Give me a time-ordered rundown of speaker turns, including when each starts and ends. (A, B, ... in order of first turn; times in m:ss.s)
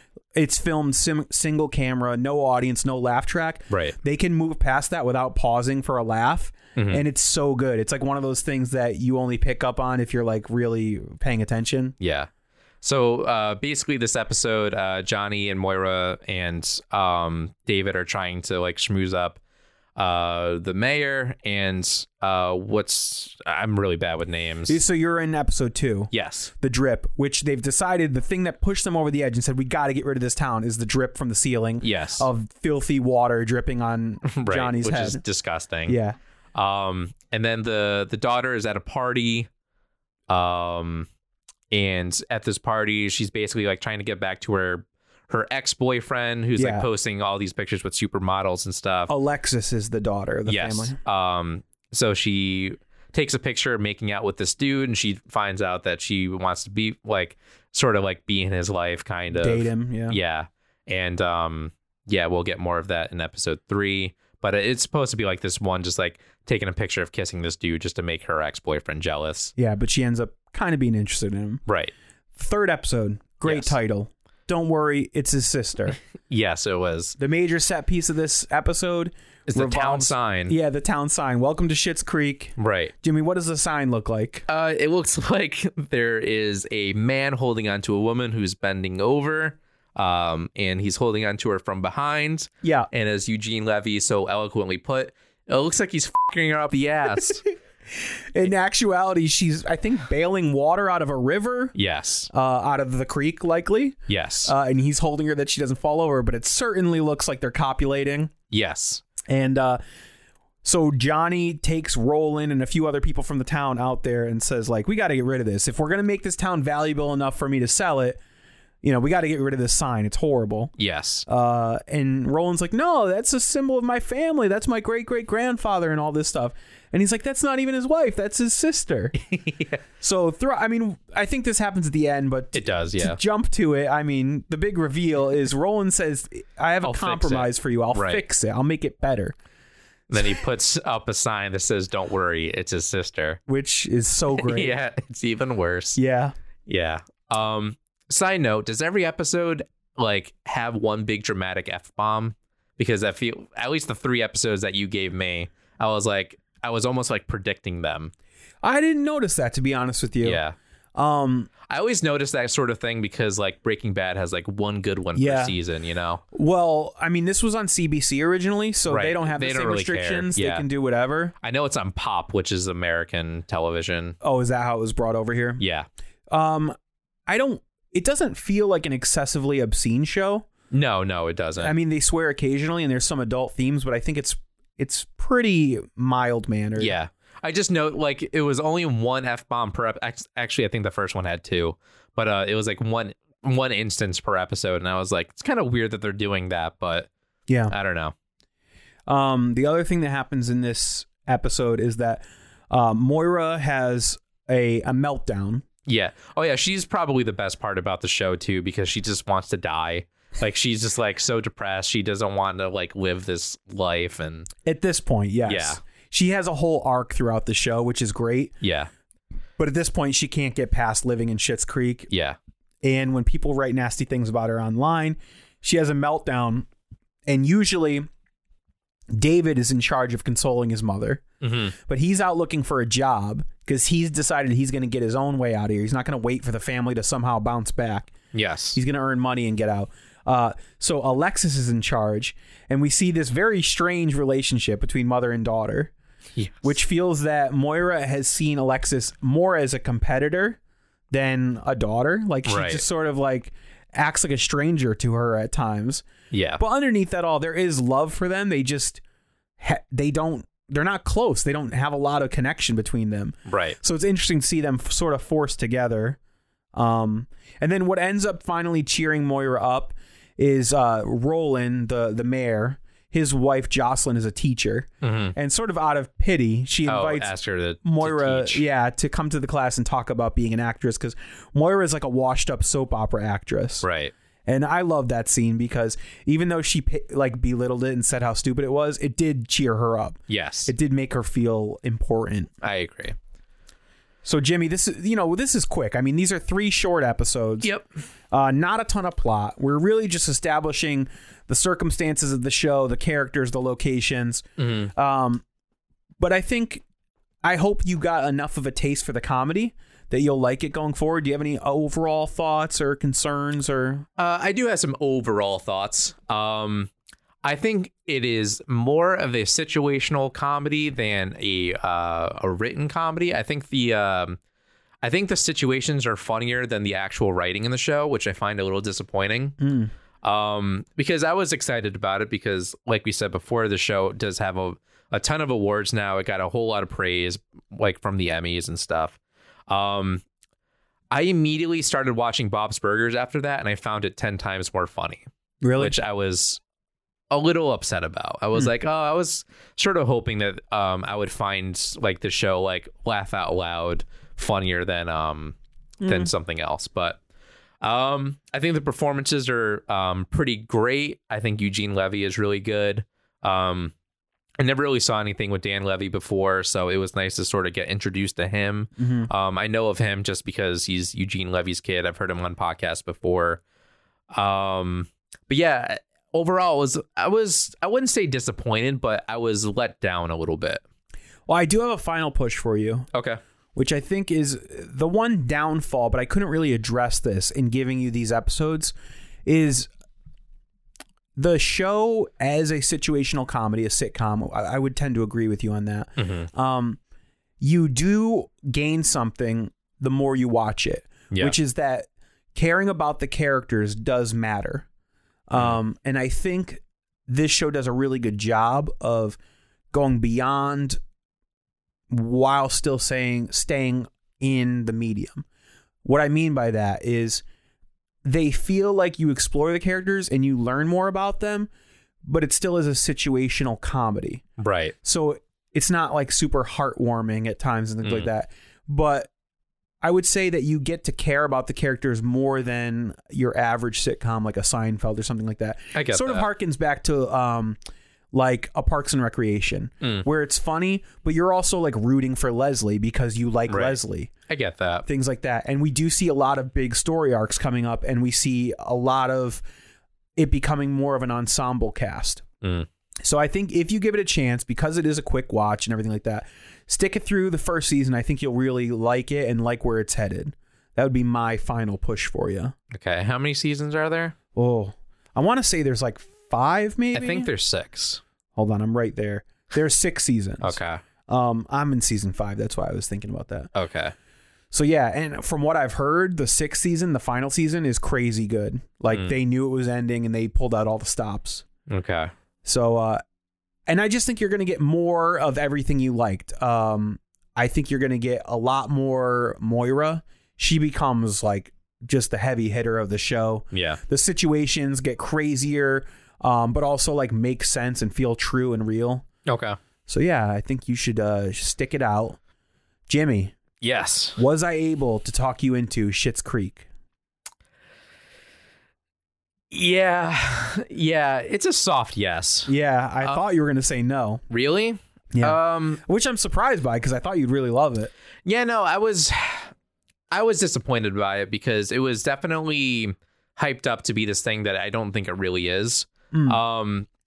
0:00.3-0:12.0 A
0:03.7-0:04.0 B
0:06.8-0:07.0 B
0:12.0-0:12.3 B
0:12.8-0:19.4 B
0:20.0-0:24.8 B
0:24.7-0:35.2 A
0:26.1-0:26.5 B
0:31.8-0:32.3 B
0:34.2-0:36.0 B
0:35.9-0:36.2 A
0:36.6-0:39.5 B
0:40.3-0:41.1 B
0:41.7-0:49.1 B
0:46.6-0:46.9 A
0:49.1-0:51.0 A
0:50.5-1:09.5 B
0:59.3-1:00.2 A
1:09.6-1:11.6 A
1:11.7-1:11.9 B
1:12.4-1:16.0 A
1:13.4-1:13.8 B
1:16.3-1:17.2 B
1:17.2-1:24.5 A
1:19.5-1:20.6 B
1:22.6-1:22.9 B
1:24.5-1:37.4 B
1:32.6-1:32.9 A
1:37.2-1:37.5 A
1:38.3-1:41.8 A
1:41.8-1:42.3 B
1:42.3-1:48.3 A
1:44.1-1:44.5 B
1:48.5-1:49.0 B
1:49.3-1:49.8 A
1:50.6-1:58.2 A
1:58.8-2:00.7 A
2:00.8-2:01.3 B
2:01.3-2:09.2 A
2:09.2-2:09.8 B
2:10.0-2:19.4 A
2:12.5-2:13.2 B
2:16.8-2:18.2 B
2:20.1-2:23.4 B
2:23.5-2:24.8 A
2:24.3-2:26.0 B
2:26.0-2:26.3 A
2:26.7-2:38.1 B
2:38.6-2:40.4 A
2:40.2-2:40.6 B
2:41.0-2:41.5 A
2:41.7-2:46.2 B
2:45.2-2:45.6 A
2:46.3-2:51.3 A
2:48.9-2:50.7 B
2:51.4-2:54.2 B
2:54.2-2:55.6 A
2:55.6-2:55.9 B
2:56.3-2:56.8 A
2:57.3-3:00.5 A
3:00.7-3:01.7 B
3:01.6-3:06.9 A
3:06.8-3:17.1 B
3:17.5-3:17.7 A
3:17.7-3:18.1 B
3:19.1-3:25.6 A
3:25.9-3:34.5 B
3:34.6-3:38.6 A
3:35.5-3:35.8 B
3:38.6-3:38.9 B
3:39.6-3:42.1 A
3:42.1-3:42.4 B
3:42.8-3:46.7 A
3:47.3-3:48.1 A
3:49.1-3:51.2 A
3:51.4-3:51.7 B
3:51.8-3:58.1 A
3:58.3-3:58.8 B
3:58.7-4:05.9 A
4:06.4-4:06.7 B
4:06.6-4:10.6 A
4:11.1-4:16.0 A
4:12.5-4:12.8 B
4:16.3-4:16.6 B
4:16.6-4:19.0 A
4:19.6-4:26.2 A
4:23.5-4:23.8 B
4:26.7-4:43.9 A
4:35.0-4:35.4 B
4:36.9-4:38.6 B
4:43.8-4:44.1 B
4:44.5-4:52.5 A
4:50.3-4:50.7 B
4:52.6-4:53.2 B
4:54.2-4:57.7 A
4:58.3-5:05.4 A
5:04.6-5:04.9 B
5:06.2-5:06.8 A
5:07.4-5:14.1 A
5:14.2-5:16.9 B
5:17.4-5:24.4 B
5:25.0-5:29.6 B
5:29.6-5:29.9 A
5:30.2-5:40.2 B
5:41.1-5:46.6 B
5:45.6-5:46.0 A
5:47.3-5:57.2 B
5:56.0-5:56.3 A
5:57.8-6:03.9 B
6:04.6-6:13.6 B
6:09.0-6:09.3 A
6:14.3-6:20.8 B
6:21.5-6:23.1 A
6:23.1-6:23.4 B
6:23.8-6:28.9 A
6:29.5-6:29.9 A
6:31.4-6:37.0 A
6:36.2-6:36.5 B
6:37.6-6:44.9 A
6:45.5-6:49.4 A
6:49.9-6:51.0 A
6:52.1-6:55.4 A
6:56.0-6:57.4 A
6:58.2-7:01.7 A
7:02.2-7:04.4 A
7:04.6-7:05.0 B
7:05.0-7:09.3 A
7:08.0-7:08.3 B
7:10.0-7:17.8 A
7:15.9-7:16.5 B
7:18.3-7:24.3 A
7:23.7-7:25.1 B
7:25.1-7:29.6 A
7:30.4-7:32.4 A
7:32.6-7:32.9 B
7:33.2-7:42.8 A
7:42.9-7:44.4 B
7:44.5-7:47.5 A
7:47.1-7:48.2 B
7:48.6-7:53.7 A
7:50.6-7:51.0 B
7:53.8-7:54.1 B
7:54.7-8:01.6 A
8:01.9-8:02.3 B
8:02.6-8:03.2 A
8:03.9-8:19.2 A
8:13.7-8:14.0 B
8:19.4-8:19.8 B
8:20.1-8:22.4 A
8:23.1-8:23.6 A
8:23.8-8:24.4 B
8:24.4-8:26.9 A
8:29.7-8:33.4 B
8:32.7-8:34.4 A
8:34.5-8:36.0 B
8:35.3-8:38.1 A
8:38.4-8:39.7 B
8:40.3-8:47.1 B
8:46.3-8:46.6 A